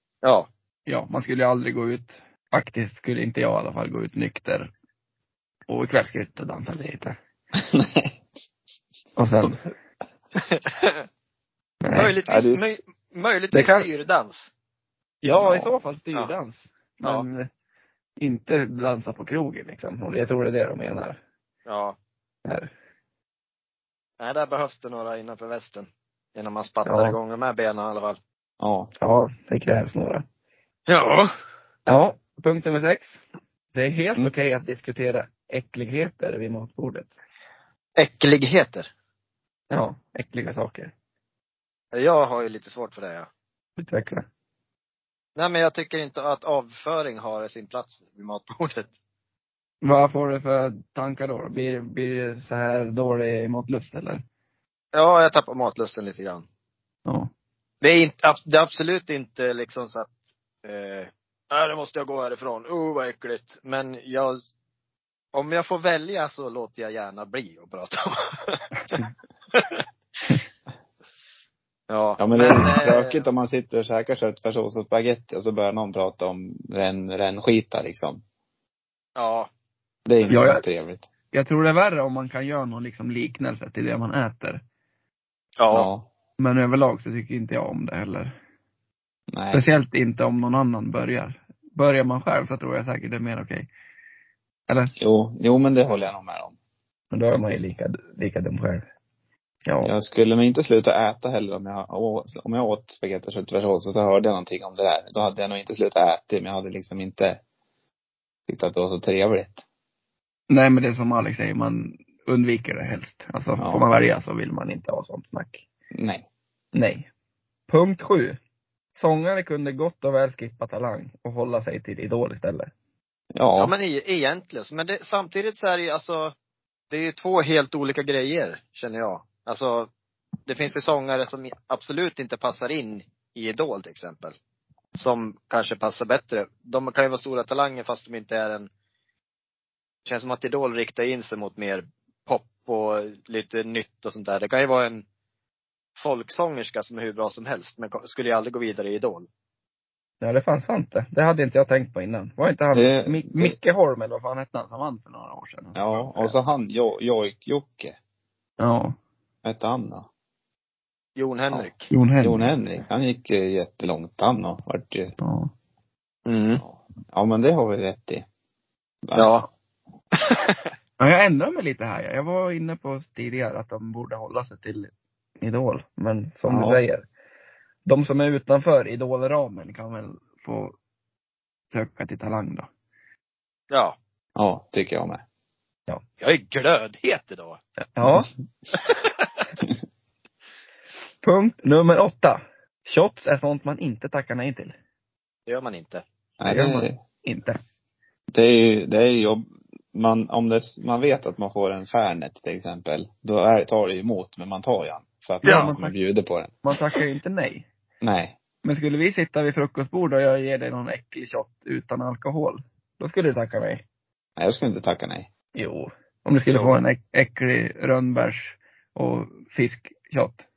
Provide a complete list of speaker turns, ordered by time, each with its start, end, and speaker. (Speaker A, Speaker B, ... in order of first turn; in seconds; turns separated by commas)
Speaker A: 0.2-0.5, Speaker B: 0.9-4.7, Speaker B: 5.7-7.2, Speaker C: 7.5-8.2, Speaker B: 9.2-9.6, Speaker A: 10.4-11.0, Speaker B: 11.8-12.1, Speaker A: 11.9-14.5, Speaker C: 12.3-12.8, Speaker B: 13.5-13.9, Speaker B: 15.2-17.5, Speaker C: 15.4-15.7, Speaker B: 18.2-21.2, Speaker A: 21.7-22.0, Speaker A: 24.2-28.2, Speaker B: 26.9-27.2, Speaker C: 28.6-28.9, Speaker B: 29.0-30.2, Speaker A: 30.9-31.3, Speaker B: 31.9-33.2, Speaker B: 33.7-37.1, Speaker A: 38.0-38.9, Speaker B: 39.7-40.9, Speaker A: 41.9-43.3, Speaker B: 43.8-44.3, Speaker A: 45.4-48.9, Speaker B: 49.8-54.2, Speaker A: 54.9-56.5, Speaker A: 57.8-60.1, Speaker A: 60.6-64.4, Speaker A: 65.3-69.0, Speaker A: 69.5-69.8, Speaker A: 71.9-73.3, Speaker C: 72.2-78.2, Speaker A: 79.2-79.5, Speaker C: 80.1-81.1, Speaker A: 80.2-80.5, Speaker B: 80.3-80.7, Speaker B: 81.3-84.6, Speaker A: 85.6-85.9, Speaker C: 85.7-86.1, Speaker B: 86.4-88.3, Speaker C: 89.3-89.7, Speaker B: 89.5-93.7, Speaker B: 94.7-94.9, Speaker C: 95.0-96.6, Speaker B: 97.1-98.9, Speaker C: 97.3-97.7, Speaker B: 99.7-99.9, Speaker C: 99.8-107.4, Speaker C: 108.5-109.6, Speaker B: 110.5-115.6, Speaker C: 113.6-113.8, Speaker C: 115.9-116.3, Speaker B: 116.7-117.1, Speaker B: 117.7-118.4, Speaker B: 119.0-122.7, Speaker C: 123.3-123.7, Speaker A: 123.6-126.3, Speaker A: 126.9-129.9, Speaker A: 130.5-134.4, Speaker A: 135.0-138.7, Speaker A: 140.1-145.0, Speaker A: 146.0-149.3, Speaker B: 150.2-156.4, Speaker C: 152.7-153.6, Speaker C: 155.8-158.0, Speaker B: 158.6-159.0, Speaker C: 159.4-160.1, Speaker A: 161.2-161.9, Speaker B: 161.9-162.5, Speaker C: 162.2-165.1, Speaker B: 165.2-165.5, Speaker A: 166.3-166.6, Speaker C: 166.6-168.2, Speaker C: 169.1-169.3, Speaker A: 169.2-169.5, Speaker A: 170.2-170.6, Speaker B: 171.0-177.0, Speaker C: 176.5-176.8, Speaker B: 177.8-180.7, Speaker B: 181.7-182.7, Speaker A: 183.7-184.0, Speaker C: 184.4-185.2, Speaker A: 186.2-187.6, Speaker B: 188.0-188.3, Speaker A: 188.7-189.3, Speaker B: 191.2-194.8, Speaker A: 195.5-196.0, Speaker C: 196.4-197.0, Speaker B: 196.4-197.6, Speaker C: 198.3-206.6, Speaker B: 205.4-205.9, Speaker A: 205.4-205.7, Speaker B: 206.6-207.7, Speaker C: 208.0-208.4, Speaker B: 208.6-213.8, Speaker C: 214.4-215.3, Speaker B: 215.6-220.4